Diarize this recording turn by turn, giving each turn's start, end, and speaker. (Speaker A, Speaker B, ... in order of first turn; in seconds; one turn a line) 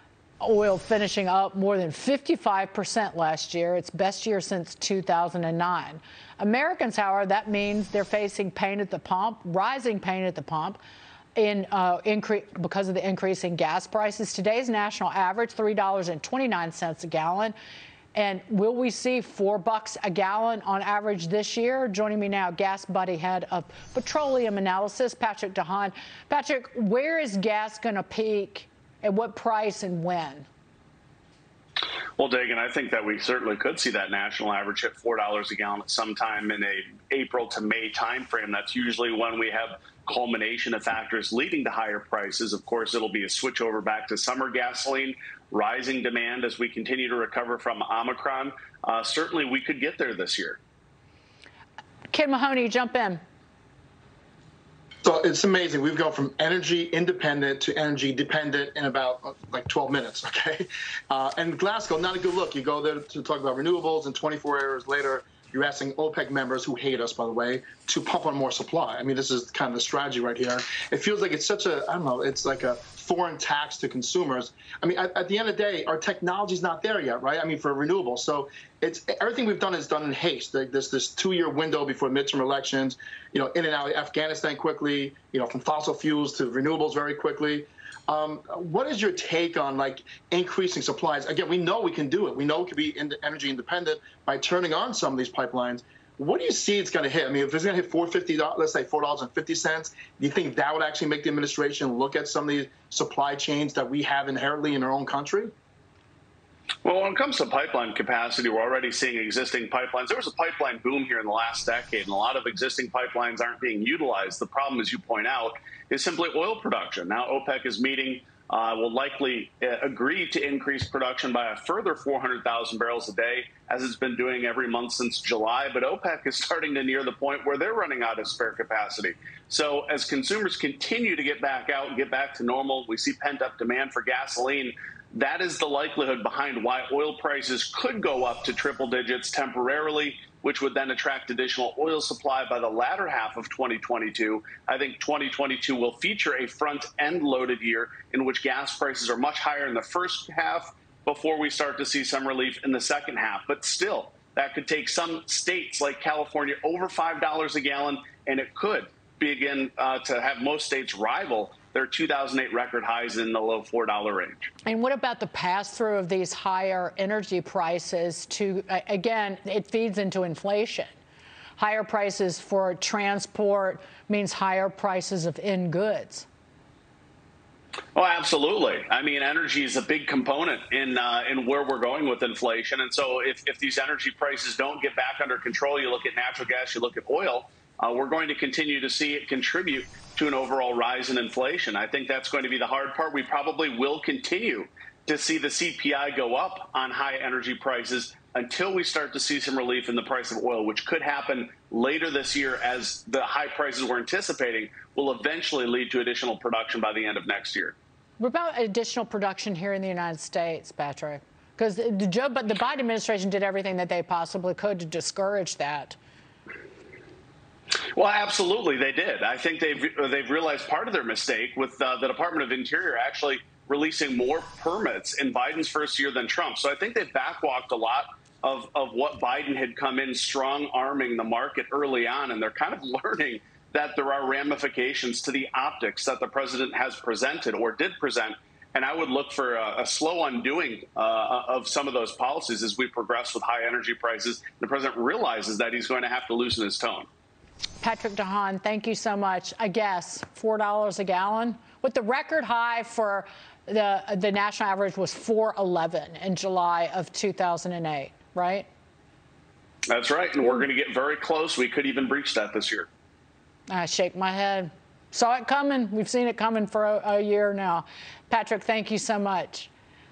Speaker A: 0.4-10.8
Speaker A: 11.4-17.6
Speaker A: 18.1-30.5
Speaker B: 32.2-50.6
Speaker A: 52.1-53.2
Speaker C: 55.0-105.5
Speaker B: 106.8-164.5
Speaker A: 164.7-170.9
Speaker A: 171.6-176.3
Speaker B: 177.9-207.8
Speaker A: 208.2-216.0
Speaker B: 217.9-247.1
Speaker A: 247.8-258.7
Speaker B: 259.9-262.9
Speaker A: 263.7-269.7